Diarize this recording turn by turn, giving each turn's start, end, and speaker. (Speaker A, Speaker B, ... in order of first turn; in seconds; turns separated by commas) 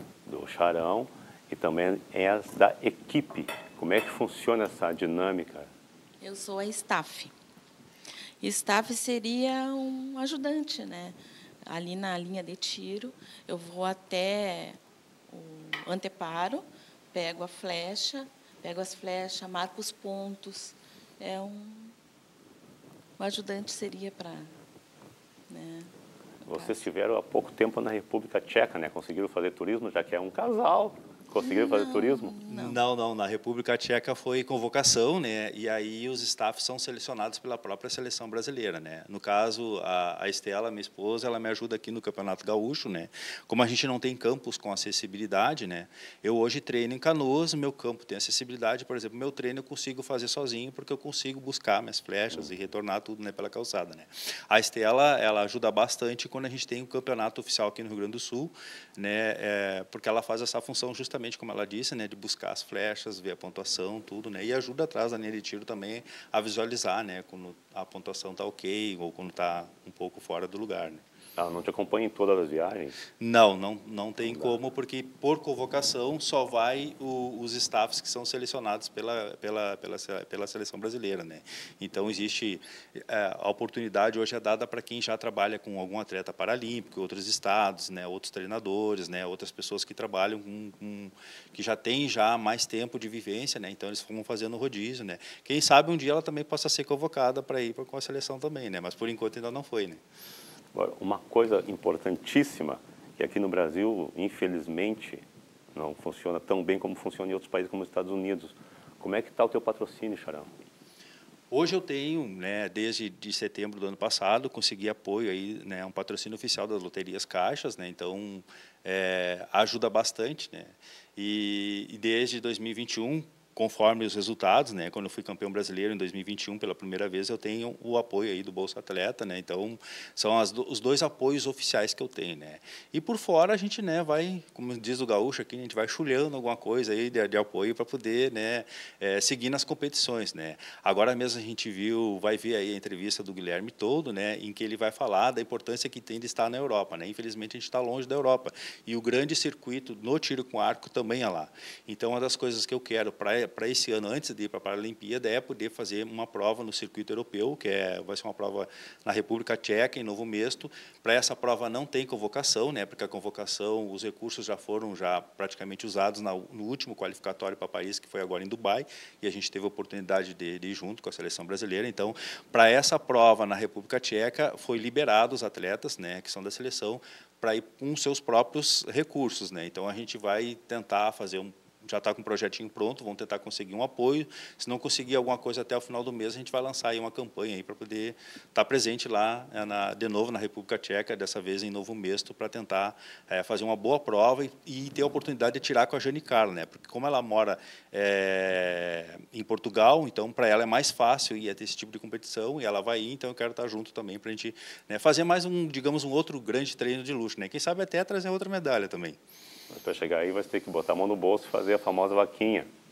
Speaker A: 0.2-5.7, Speaker B: 6.2-7.3, Speaker B: 8.4-21.9, Speaker B: 23.2-24.5, Speaker B: 25.5-25.9, Speaker B: 26.4-26.8, Speaker A: 26.5-32.3, Speaker B: 31.4-32.8, Speaker C: 32.5-71.0, Speaker A: 71.3-73.0, Speaker C: 73.2-100.0, Speaker A: 74.2-74.5, Speaker A: 100.7-110.5, Speaker C: 111.5-209.2, Speaker A: 209.7-212.7